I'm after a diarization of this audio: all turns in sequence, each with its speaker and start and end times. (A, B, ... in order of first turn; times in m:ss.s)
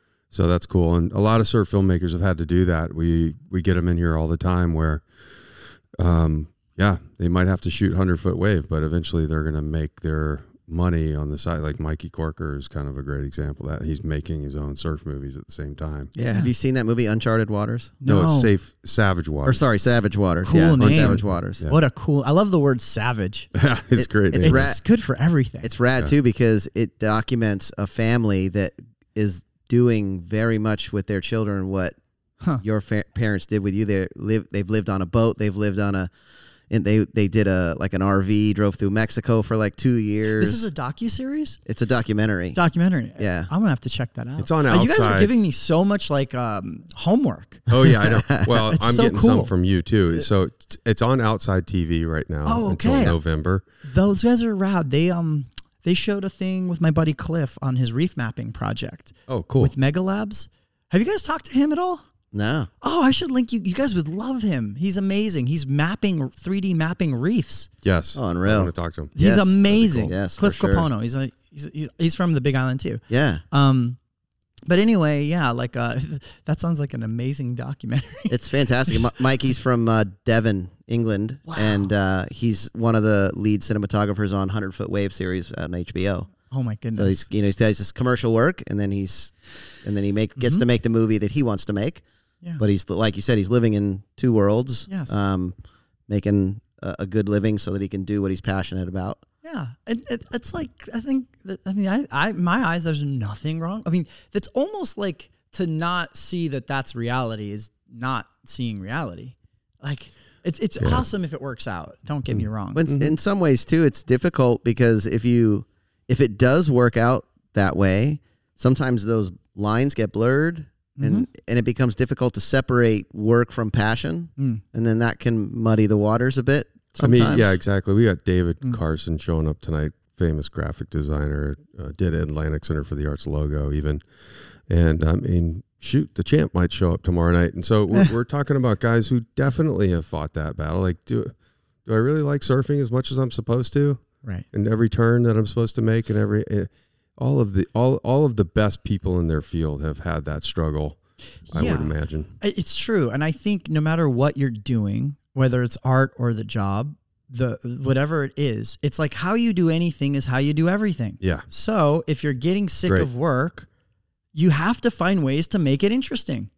0:00.3-0:05.0 A
0:06.0-0:16.1 A
0:16.1-0:18.0 B
0:16.2-0:16.5 C
0:18.0-0:18.5 C
0:18.0-0:19.7 A
0:19.4-0:21.6 B
0:20.4-0:23.5 C
0:20.8-0:21.8 A
0:23.5-0:24.8 A
0:24.0-0:24.8 B
0:24.4-0:25.7 C
0:25.6-0:32.0 B
0:32.6-0:36.1 B
0:36.7-0:40.7 B
0:40.4-0:41.6 C
0:41.6-0:42.6 B
0:42.5-0:47.7 C
0:43.2-0:43.5 B
0:44.4-0:45.3 A
0:47.7-0:53.6 A
0:48.1-0:48.6 B
0:48.7-0:49.5 C
0:52.4-0:53.2 C
0:53.8-1:02.0 C
0:59.3-0:59.7 A
1:02.3-1:02.7 B
1:02.8-1:07.7 C
1:07.8-1:10.1 A
1:08.1-1:10.9 B
1:09.1-1:14.0 C
1:13.1-1:13.4 B
1:14.7-1:19.1 C
1:18.3-1:26.3 B
1:21.4-1:21.9 C
1:26.5-1:27.2 C
1:26.9-1:32.0 B
1:30.4-1:30.6 C
1:32.6-1:35.5 B
1:34.9-1:35.1 C
1:36.1-1:39.2 B
1:39.4-1:52.8 C
1:50.8-1:51.0 A
1:52.3-1:53.1 A
1:52.7-2:07.6 B
2:01.0-2:01.3 C
2:04.4-2:04.6 C
2:07.0-2:14.0 A
2:14.7-2:21.3 A
2:21.8-2:32.3 A
2:31.5-2:43.7 C
2:41.2-2:41.4 A
2:44.3-2:46.5 C